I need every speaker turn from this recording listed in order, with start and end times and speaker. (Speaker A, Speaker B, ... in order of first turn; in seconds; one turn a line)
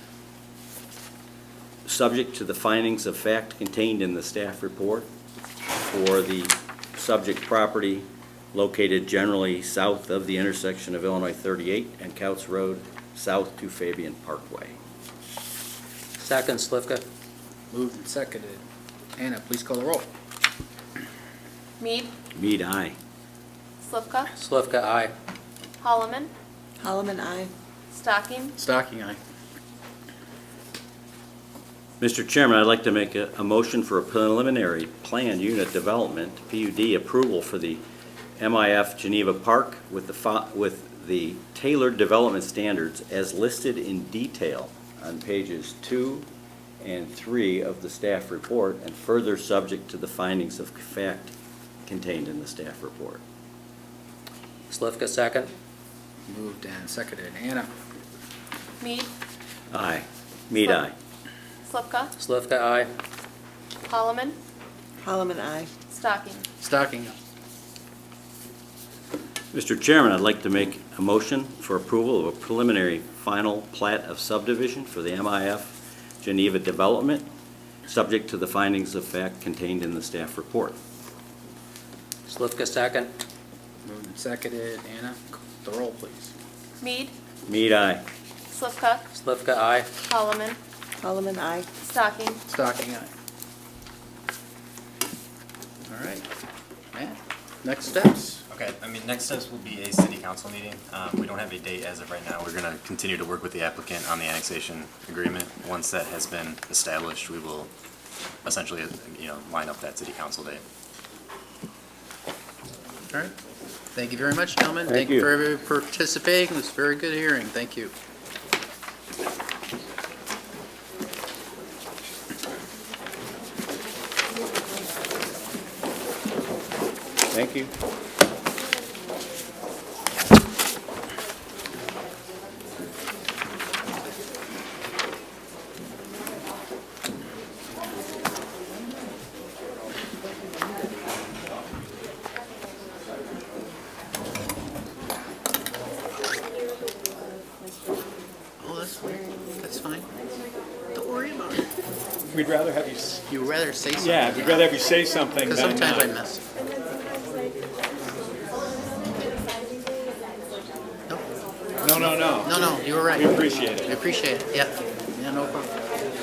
Speaker A: 1.9-5.1
Speaker A: 5.8-14.8
Speaker B: 16.2-17.0
Speaker C: 17.7-18.6
Speaker C: 19.2-20.1
Speaker D: 21.8-22.1
Speaker A: 22.3-22.9
Speaker D: 23.8-24.3
Speaker B: 24.3-25.1
Speaker D: 25.8-26.3
Speaker E: 26.8-27.5
Speaker D: 27.9-28.6
Speaker C: 28.6-29.2
Speaker A: 32.0-37.8
Speaker A: 38.4-46.2
Speaker A: 46.8-51.3
Speaker A: 51.9-53.2
Speaker B: 54.7-55.5
Speaker C: 56.3-57.7
Speaker D: 58.8-59.1
Speaker A: 59.7-60.9
Speaker D: 61.7-62.1
Speaker B: 62.2-62.9
Speaker D: 63.9-64.3
Speaker E: 65.0-65.7
Speaker D: 65.9-66.4
Speaker C: 66.6-67.1
Speaker A: 69.5-77.3
Speaker A: 77.8-80.8
Speaker B: 82.3-83.1
Speaker C: 83.8-86.3
Speaker D: 86.8-87.1
Speaker A: 87.5-88.0
Speaker D: 88.5-89.1
Speaker B: 89.1-89.9
Speaker D: 90.0-90.6
Speaker E: 91.0-91.7
Speaker D: 91.8-92.4
Speaker C: 92.5-93.1
Speaker C: 95.9-96.2
Speaker C: 96.9-98.4
Speaker F: 98.5-107.7
Speaker F: 108.4-110.6
Speaker C: 113.9-117.9
Speaker A: 114.9-115.3
Speaker A: 127.3-127.7
Speaker C: 148.6-150.1
Speaker G: 152.3-153.2
Speaker C: 153.3-154.8
Speaker G: 154.0-156.1
Speaker C: 155.4-156.4
Speaker G: 161.8-163.9
Speaker C: 161.8-165.7